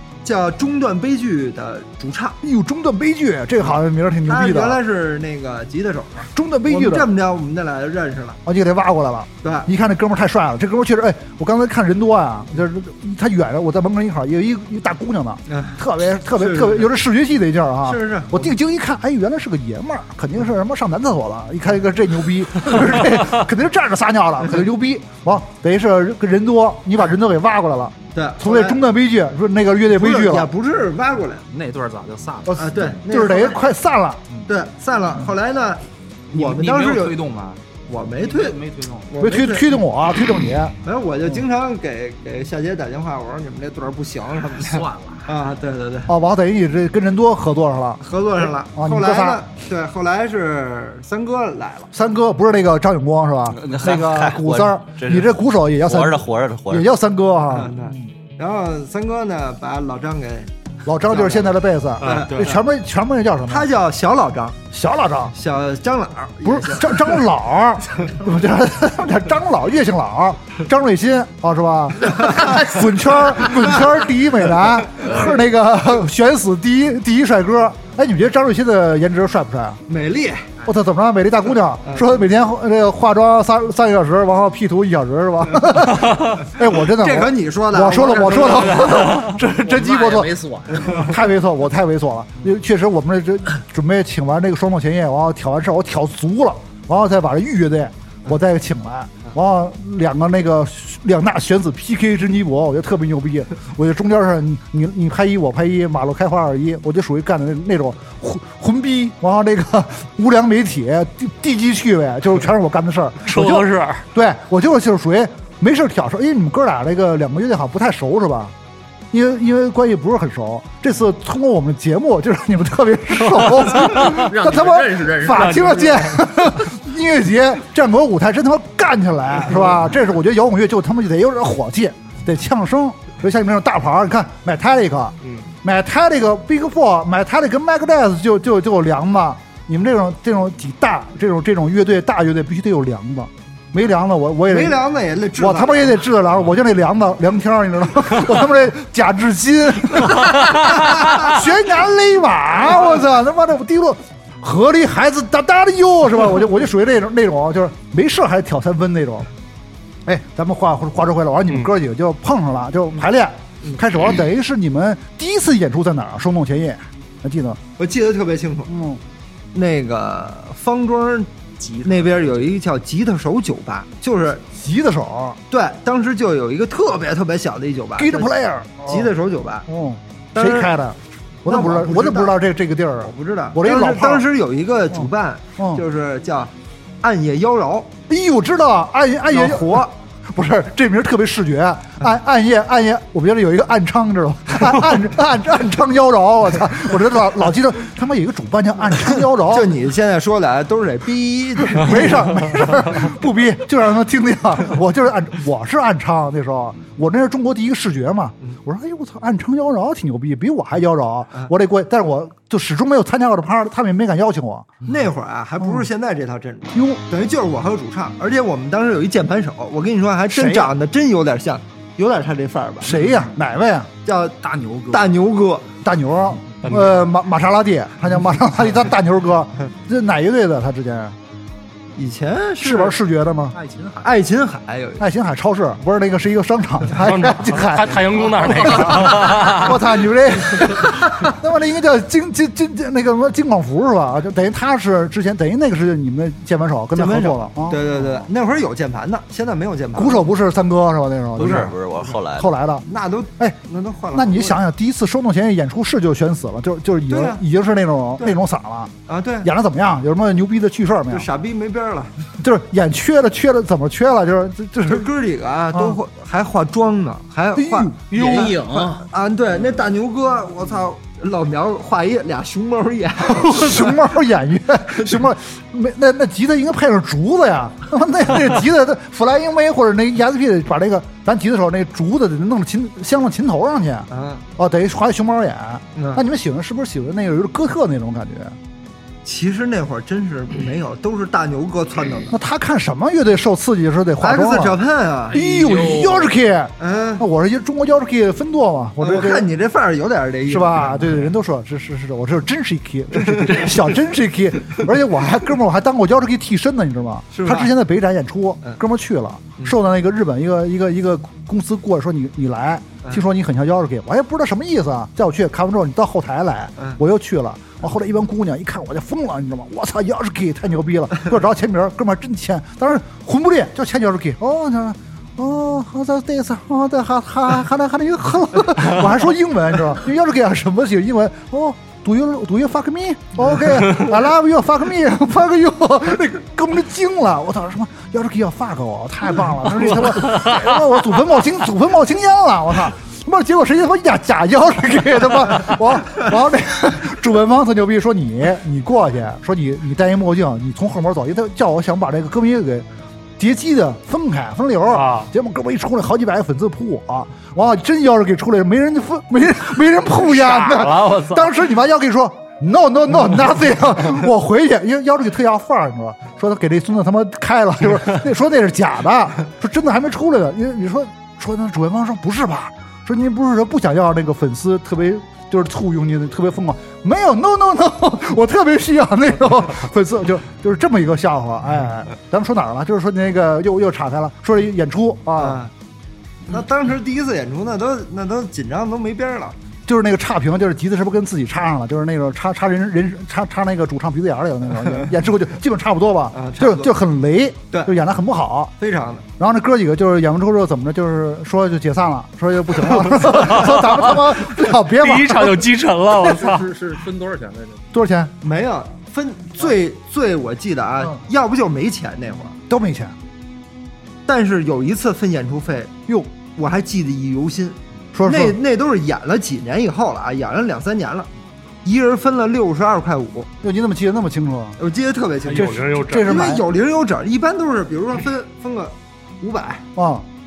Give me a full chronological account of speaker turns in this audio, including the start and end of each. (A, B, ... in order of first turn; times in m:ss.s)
0:00.2-0:02.4 A
0:02.4-0:04.8 B
0:04.2-0:08.4 A
0:06.4-0:07.1 B
0:08.4-0:30.5 B
0:09.4-0:09.7 A
0:15.5-0:15.8 A
0:16.3-0:16.9 A
0:17.8-0:18.6 A
0:28.1-0:28.8 A
0:29.9-0:31.4 A
0:31.5-0:33.0 C
0:32.5-0:34.2 B
0:32.6-0:33.7 A
0:34.5-0:37.2 A
0:36.3-0:37.6 C
0:37.9-0:39.7 A
0:38.2-0:39.1 C
0:39.2-0:40.8 B
0:40.8-0:46.1 A
0:44.6-0:45.2 C
0:46.1-0:49.4 B
0:48.0-0:51.9 A
0:51.9-0:57.8 B
0:53.5-0:56.9 D
0:57.5-1:00.5 A
1:00.8-1:03.7 B
1:01.0-1:02.6 A
1:02.0-1:02.5 E
1:03.5-1:04.6 A
1:04.7-1:05.3 B
1:05.3-1:07.2 A
1:06.4-1:19.8 B
1:12.2-1:12.6 A
1:19.9-1:20.5 A
1:20.6-1:58.5 B
1:21.8-1:22.3 A
1:26.8-1:29.0 A
1:29.5-1:31.1 C
1:53.3-1:54.0 E
1:59.1-2:24.8 B
2:03.4-2:04.2 E
2:04.0-2:06.1 C
2:05.3-2:06.0 E
2:24.5-2:26.0 A
2:25.4-2:39.3 B
2:40.1-2:47.6 B
2:47.8-2:48.7 A
2:48.7-2:49.0 B
2:49.5-2:51.3 A
2:51.6-2:52.5 C
2:51.8-2:54.4 A
2:54.6-2:55.4 B
2:55.5-2:59.7 A
2:58.0-2:59.1 B
2:59.7-3:04.3 B
3:00.4-3:00.7 A
3:01.5-3:02.4 A
3:03.0-3:07.9 A
3:04.9-3:05.8 B
3:08.1-3:19.7 B
3:09.3-3:09.9 A
3:19.4-3:22.5 A
3:21.7-3:34.8 B
3:34.9-3:43.0 A
3:35.6-3:35.9 B
3:36.7-3:37.0 B
3:40.3-3:40.7 B
3:42.8-3:43.9 B
3:44.0-3:44.4 A
3:44.4-3:45.2 C
3:44.9-3:45.7 A
3:45.8-3:51.2 B
3:46.6-3:47.0 E
3:52.0-3:53.0 A
3:52.6-3:53.6 B
3:53.5-3:54.1 C
3:54.0-3:55.1 A
3:55.0-4:07.8 B
3:57.0-3:59.8 E
4:07.0-4:10.3 A
4:10.0-4:11.8 B
4:11.4-4:12.5 D
4:11.4-4:11.7 A
4:12.4-4:12.9 B
4:12.9-4:14.6 A
4:14.1-4:21.3 B
4:17.1-4:17.4 A
4:19.1-4:19.5 A
4:21.1-4:22.1 A
4:22.4-4:25.1 B
4:24.9-4:34.0 A
4:25.7-4:26.0 B
4:27.6-4:28.7 B
4:28.1-4:29.1 C
4:33.3-4:48.6 B
4:44.1-4:44.4 A
4:46.0-4:46.2 A
4:49.2-4:52.4 A
4:52.3-4:54.8 B
4:54.2-4:55.4 A
4:55.3-4:56.4 C
4:55.3-4:59.5 B
4:56.8-4:57.3 A
4:59.0-5:01.1 A
5:00.5-5:52.9 B
5:03.2-5:03.8 A
5:07.3-5:07.7 A
5:40.2-5:40.6 E
5:53.4-6:25.6 B
5:54.9-5:55.3 E
6:00.2-6:01.5 E
6:25.4-6:25.7 A
6:26.5-6:29.6 A
6:29.9-6:38.7 B
6:36.3-6:37.0 A
6:37.7-6:38.0 A
6:38.8-6:39.3 A
6:39.4-6:45.7 B
6:44.9-6:46.7 E
6:46.2-6:47.9 C
6:47.9-6:48.3 B
6:48.4-6:52.6 A
6:52.7-6:53.2 B
6:54.3-6:55.9 A
6:56.1-6:56.3 B
6:56.5-7:01.3 A
6:58.1-6:58.6 B
7:01.8-7:03.5 A
7:03.6-7:04.8 B
7:04.8-7:09.8 A
7:05.5-7:06.3 E
7:05.6-7:06.6 B
7:10.0-7:10.2 B